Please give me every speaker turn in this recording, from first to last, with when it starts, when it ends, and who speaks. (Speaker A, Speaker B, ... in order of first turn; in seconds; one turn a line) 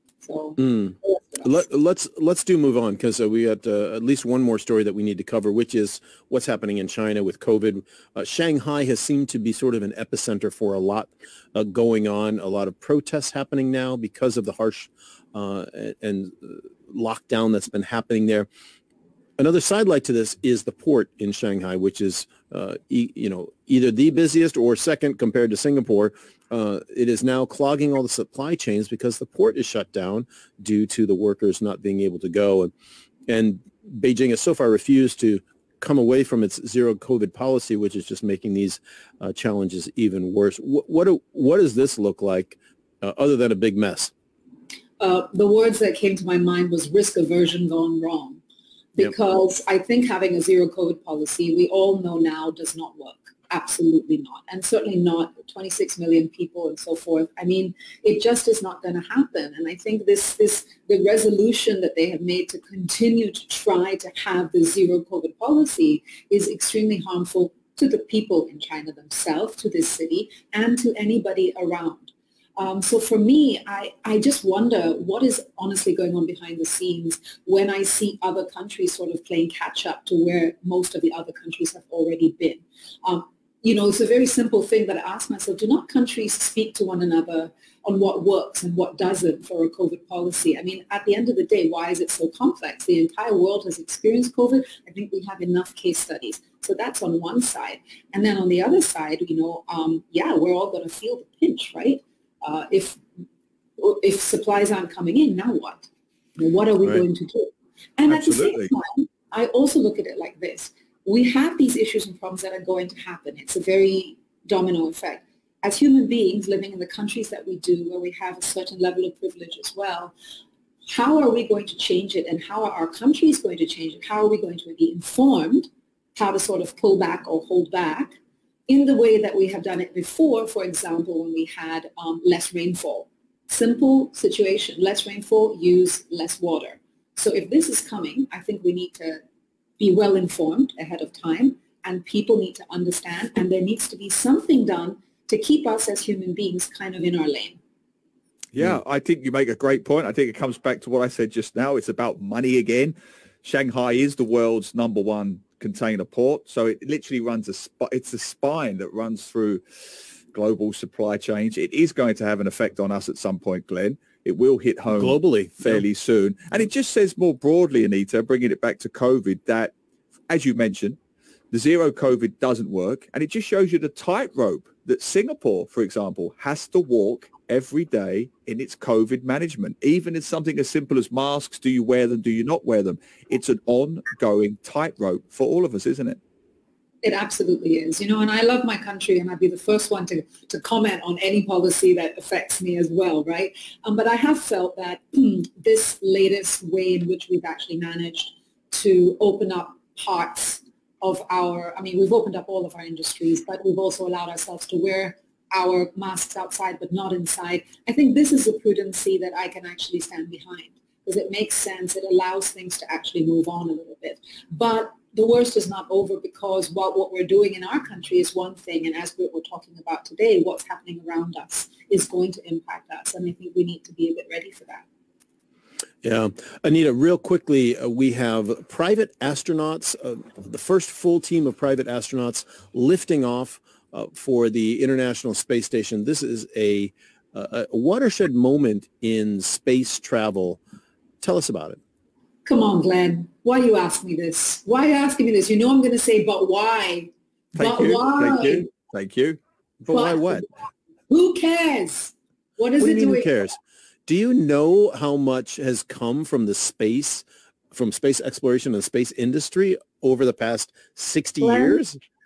Speaker A: 0.2-1.6
Speaker B: 0.6-18.5
Speaker B: 19.4-32.7
Speaker B: 33.3-44.1
Speaker A: 45.0-48.4
Speaker A: 49.0-103.0
Speaker A: 103.8-120.1
Speaker C: 108.1-108.7
Speaker A: 120.9-139.2
Speaker A: 139.8-147.6
Speaker C: 148.5-159.6
Speaker C: 160.3-169.7
Speaker B: 164.9-165.8
Speaker C: 170.3-171.0
Speaker C: 171.5-186.2
Speaker A: 187.0-224.8
Speaker B: 226.0-240.6
Speaker B: 241.2-241.8
Speaker A: 242.4-248.7
Speaker C: 247.6-250.4
Speaker B: 249.9-250.4
Speaker A: 249.9-250.4
Speaker A: 251.1-253.3
Speaker B: 252.8-262.0
Speaker A: 261.4-261.8